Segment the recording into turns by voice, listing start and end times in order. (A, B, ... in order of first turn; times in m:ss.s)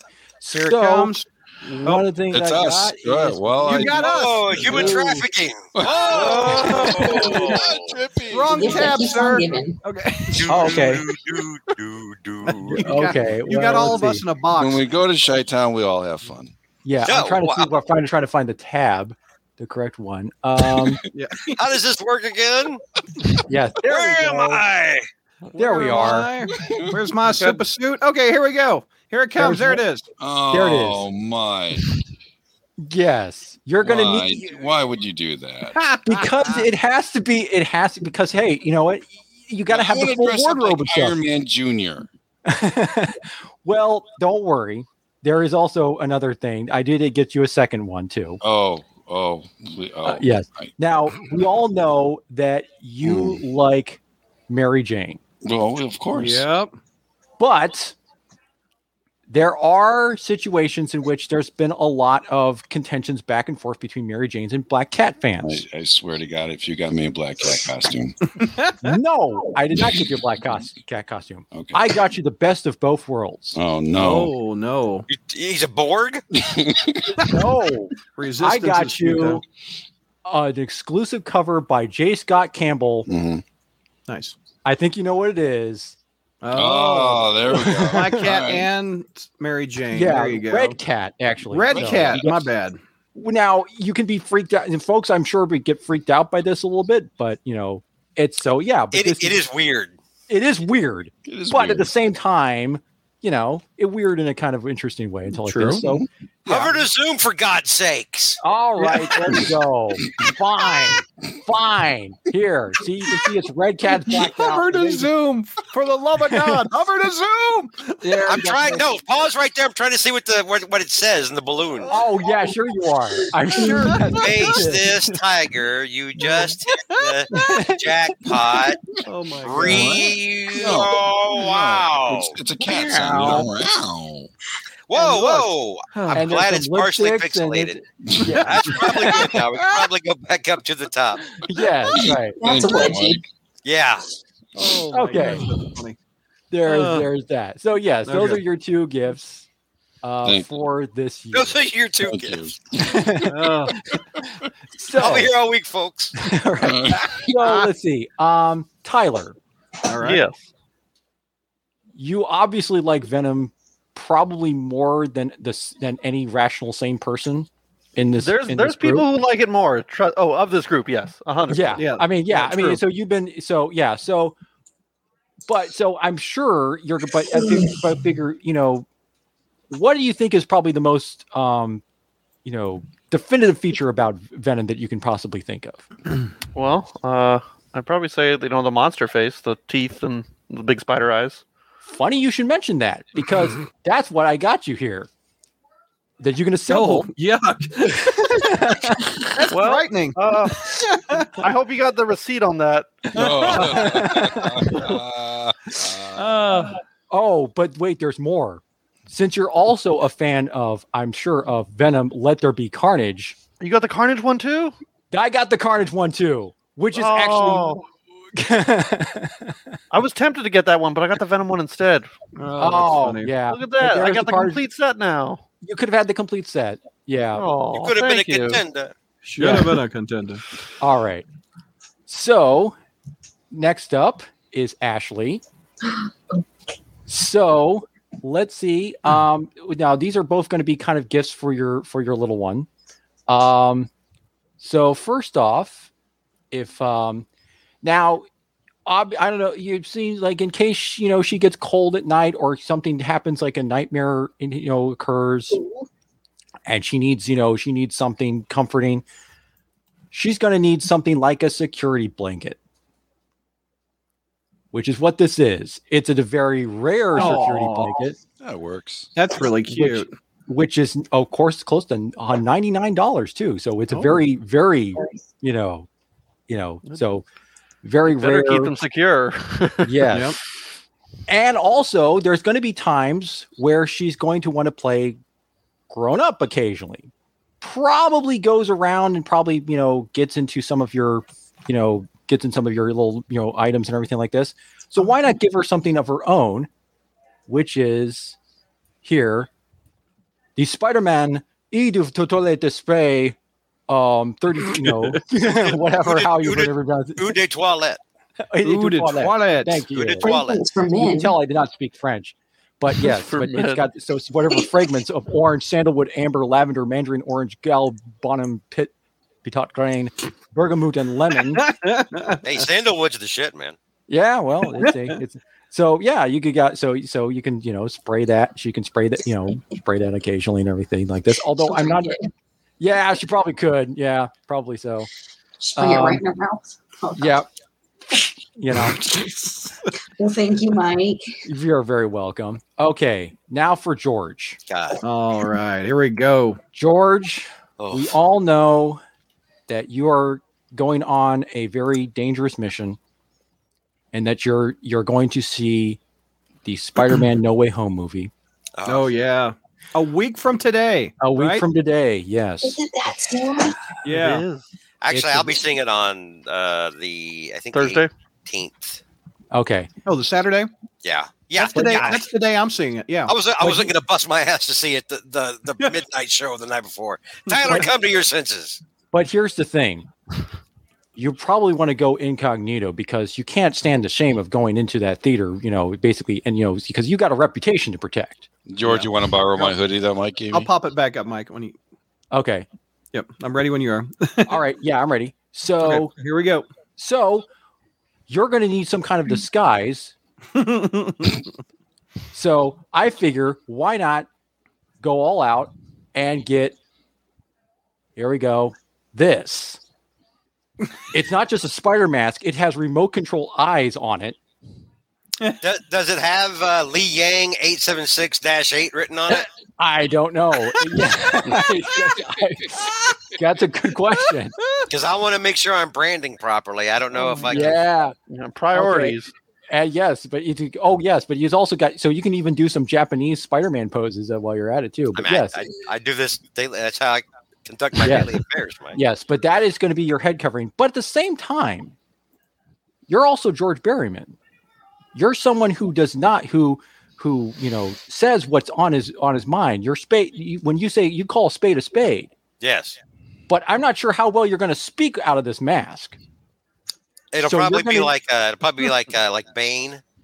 0:00.4-0:03.5 A
0:00.5-0:01.3 B
0:02.3-0:05.0 C
0:03.6-0:05.2 B
0:03.8-0:08.0 D
0:04.7-0:05.0 A
0:05.7-0:09.0 C
0:06.1-0:07.6 B
0:08.3-0:10.9 B
0:08.5-0:09.8 E
0:10.3-0:12.6 D
0:10.5-0:11.0 A
0:12.4-0:14.8 B
0:12.8-0:14.2 A
0:14.5-0:16.5 C
0:16.8-0:21.0 A
0:17.0-0:17.8 D
0:21.1-0:21.6 B
0:21.6-0:22.8 D
0:23.4-0:24.6 A
0:23.8-0:25.1 D
0:25.6-0:26.3 A
0:25.6-0:30.1 B
0:26.5-0:26.9 C
0:29.4-0:29.8 A
0:30.2-0:31.8 C
0:30.5-0:31.1 A
0:32.8-0:34.6 A
0:33.8-0:35.8 C
0:35.7-0:36.6 B
0:36.0-0:41.2 A
0:39.7-0:42.1 C
0:42.4-0:48.4 A
0:48.4-0:50.7 C
0:50.0-0:55.2 A
0:53.0-0:53.4 C
0:55.4-0:56.4 C
0:56.1-0:56.7 B
0:57.4-0:58.0 A
0:59.3-1:05.6 A
1:05.4-1:08.2 C
1:08.4-1:09.0 B
1:08.8-1:13.6 A
1:11.5-1:11.9 C
1:13.5-1:14.3 C
1:13.9-1:15.1 B
1:15.1-1:16.2 D
1:16.3-1:17.3 C
1:17.2-1:19.4 A
1:18.2-1:19.4 B
1:20.2-1:23.1 A
1:23.1-1:23.4 C
1:24.1-1:24.4 B
1:24.6-1:26.0 A
1:26.4-1:30.8 B
1:26.5-1:28.7 C
1:27.5-1:28.3 A
1:29.9-1:32.5 A
1:31.5-1:32.8 B
1:31.7-1:32.2 C
1:33.2-1:39.4 A
1:38.9-1:39.9 D
1:40.3-1:46.8 A
1:41.2-1:41.9 C
1:45.4-1:45.8 B
1:46.5-1:48.4 D
1:48.4-1:55.1 A
1:54.1-1:58.2 B
1:56.3-1:56.6 A
1:58.0-1:58.9 A
1:58.2-2:02.0 D
2:01.8-2:02.3 B
2:01.9-2:05.2 A
2:03.6-2:04.2 B
2:04.1-2:08.8 D
2:06.2-2:07.6 B
2:07.3-2:07.8 A
2:09.0-2:10.1 B
2:09.4-2:12.4 D
2:09.6-2:14.3 C
2:12.6-2:13.5 A
2:14.9-2:21.2 D
2:14.9-2:15.5 A
2:15.9-2:16.3 B
2:16.1-2:19.1 A
2:18.1-2:18.7 C
2:18.3-2:19.9 B
2:21.4-2:22.4 A
2:21.9-2:23.2 C
2:22.4-2:23.2 E
2:23.6-2:24.0 D
2:24.6-2:26.0 B
2:24.9-2:25.4 A
2:26.5-2:29.4 A
2:26.6-2:27.1 B
2:28.0-2:28.4 B
2:30.0-2:31.6 A
2:30.2-2:30.5 C
2:31.3-2:32.4 D
2:32.0-2:33.3 C
2:32.8-2:33.4 A
2:33.3-2:33.8 B
2:34.8-2:35.3 A
2:35.0-2:36.1 D
2:36.2-2:39.4 A
2:36.6-2:37.2 C
2:39.8-2:40.2 B
2:40.0-2:40.4 F
2:42.0-2:49.1 A
2:48.2-2:51.8 F
2:51.5-2:54.4 A
2:51.8-2:52.8 B
2:55.5-2:58.8 A
2:59.7-3:01.8 A
3:02.4-3:05.9 A
3:06.5-3:11.4 F
3:11.9-3:15.1 A
3:16.2-3:17.1 A
3:16.7-3:18.7 B
3:18.3-3:19.0 A
3:19.3-3:20.2 B
3:19.5-3:23.1 F
3:20.8-3:21.3 B
3:23.1-3:26.4 C
3:23.2-3:23.9 B
3:23.6-3:24.8 A
3:26.1-3:26.8 B
3:27.1-3:33.4 A
3:33.6-3:34.7 F
3:35.1-3:37.8 A
3:36.9-3:37.9 F
3:38.3-3:39.7 A
3:39.9-3:42.1 F
3:42.4-3:43.3 B
3:42.6-3:44.6 A
3:43.5-3:45.4 F
3:45.6-3:47.5 A
3:47.3-3:48.6 F
3:47.7-3:48.9 D
3:49.2-3:50.4 B
3:49.4-3:49.7 A
3:50.8-3:51.2 A
3:52.1-3:52.8 A
3:53.5-3:55.4 A
3:57.1-4:02.7 A
4:03.3-4:03.9 A
4:04.6-4:05.9 A
4:06.5-4:07.2 A
4:07.8-4:08.2 A
4:08.8-4:15.6 A
4:16.6-4:19.0 A
4:20.1-4:22.6 A
4:24.7-4:28.2 A
4:27.2-4:28.0 B
4:28.4-4:29.1 C
4:29.2-4:30.1 B
4:29.7-4:35.9 A
4:33.9-4:34.2 B
4:36.5-4:37.2 A
4:37.8-4:38.7 A
4:38.1-4:40.0 F
4:39.8-4:40.4 A
4:40.1-4:40.4 B
4:41.3-4:45.2 A
4:45.9-4:47.1 A
4:47.6-4:56.7 A
4:57.5-4:58.4 A
4:59.0-4:59.5 A
5:00.6-5:03.4 A
5:03.9-5:07.3 A
5:04.8-5:05.1 B
5:05.4-5:08.0 D
5:08.4-5:10.4 A
5:08.6-5:09.8 B
5:09.9-5:10.6 D
5:10.2-5:11.4 E
5:11.0-5:18.9 A
5:13.0-5:13.8 F
5:19.4-5:21.7 A
5:21.5-5:22.4 B
5:22.4-5:23.8 D
5:24.1-5:32.2 A
5:24.8-5:25.2 B
5:31.6-5:32.2 E
5:32.8-5:35.1 A
5:35.6-5:37.4 E
5:35.8-5:36.2 A
5:37.2-5:37.5 A
5:38.6-5:39.0 A
5:39.0-5:39.5 E
5:40.2-5:41.4 E
5:41.4-5:44.6 A
5:44.7-5:45.0 D
5:45.0-5:46.6 B
5:46.7-5:49.0 A
5:47.8-5:48.2 D
5:49.7-5:53.0 A
5:54.1-5:56.0 A
5:56.6-5:58.3 A
5:58.8-5:59.1 D
5:58.8-6:01.6 B
6:01.2-6:02.8 A
6:02.6-6:03.8 E
6:04.0-6:04.4 B
6:04.0-6:04.6 F
6:05.0-6:09.0 D
6:05.1-6:05.6 A
6:07.7-6:08.1 F
6:09.5-6:09.9 A
6:10.0-6:10.7 B
6:11.0-6:12.2 D
6:11.5-6:13.3 B
6:13.3-6:18.8 D
6:13.6-6:13.9 A
6:19.1-6:20.1 A
6:21.2-6:29.0 A
6:28.7-6:30.7 C
6:28.9-6:29.8 B
6:30.5-6:31.8 B
6:32.3-6:32.6 A
6:33.1-6:34.6 B
6:34.5-6:36.1 A
6:35.8-6:36.7 B
6:37.0-6:37.4 A
6:38.3-6:40.1 A
6:40.5-6:41.5 B
6:42.3-6:44.3 A
6:45.0-6:46.8 A
6:48.2-6:49.8 A
6:51.1-6:54.4 A
6:55.6-6:59.5 D
6:59.3-7:04.5 A
7:04.9-7:07.8 D
7:07.2-7:07.5 F
7:07.4-7:08.2 A
7:08.3-7:09.3 F
7:08.7-7:09.2 A
7:09.7-7:15.6 A
7:15.1-7:19.0 D
7:18.0-7:18.3 A
7:18.9-7:21.9 A
7:23.1-7:24.4 A
7:25.1-7:32.3 A
7:32.6-7:33.0 D
7:33.5-7:36.2 A
7:37.3-7:40.0 D
7:37.4-7:38.1 A